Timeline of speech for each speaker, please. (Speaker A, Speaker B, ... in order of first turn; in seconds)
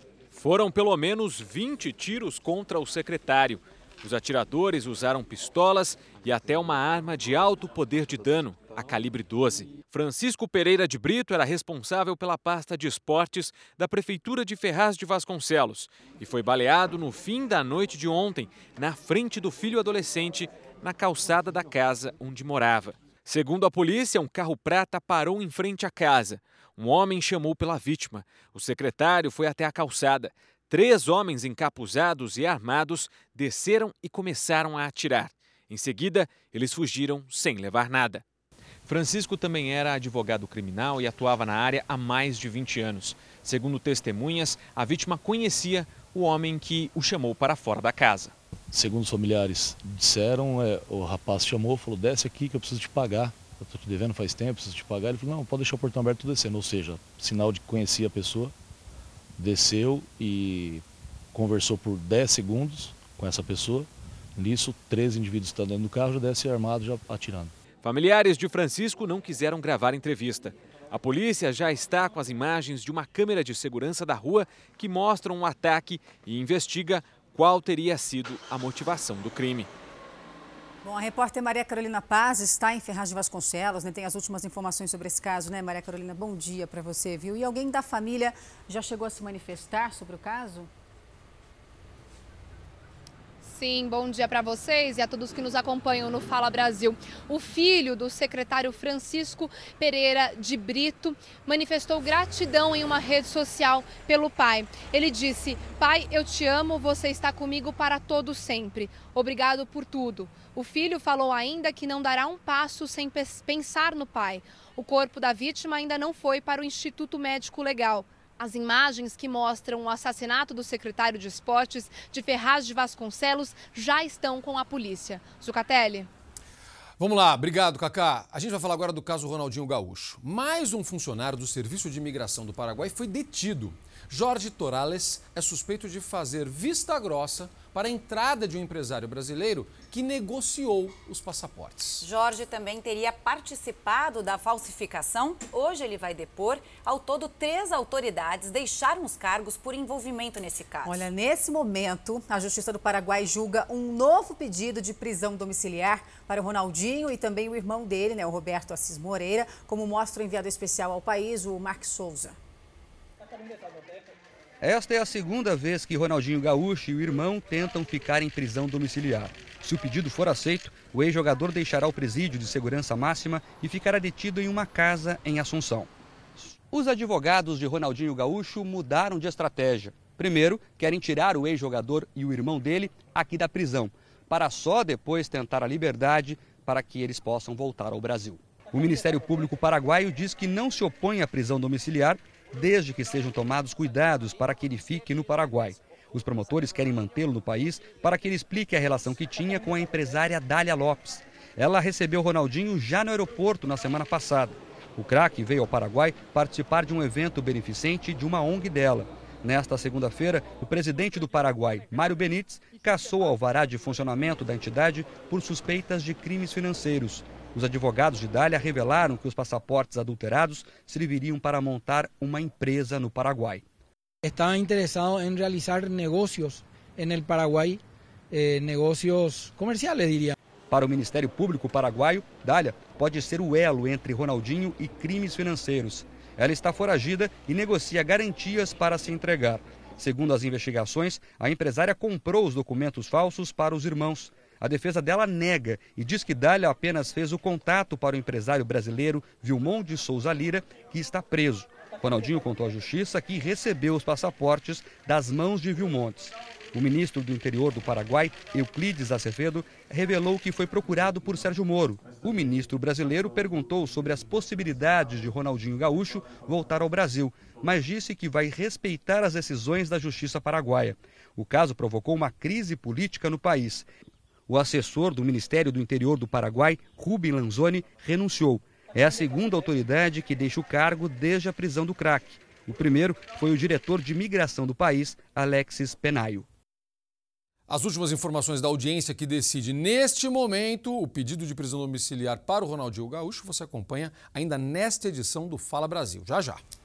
Speaker A: 0.3-38.2, 38.8-48.3, 67.8-79.7
Speaker B: 48.7-58.5, 59.4-67.5
Speaker C: 80.8-90.7, 150.8-162.3
Speaker D: 93.4-126.1
Speaker E: 127.0-142.1, 287.7-296.6
Speaker F: 142.0-151.1
Speaker G: 164.6-175.9, 176.4-223.6, 230.7-273.9, 274.5-286.5
Speaker H: 224.3-227.8, 228.3-230.3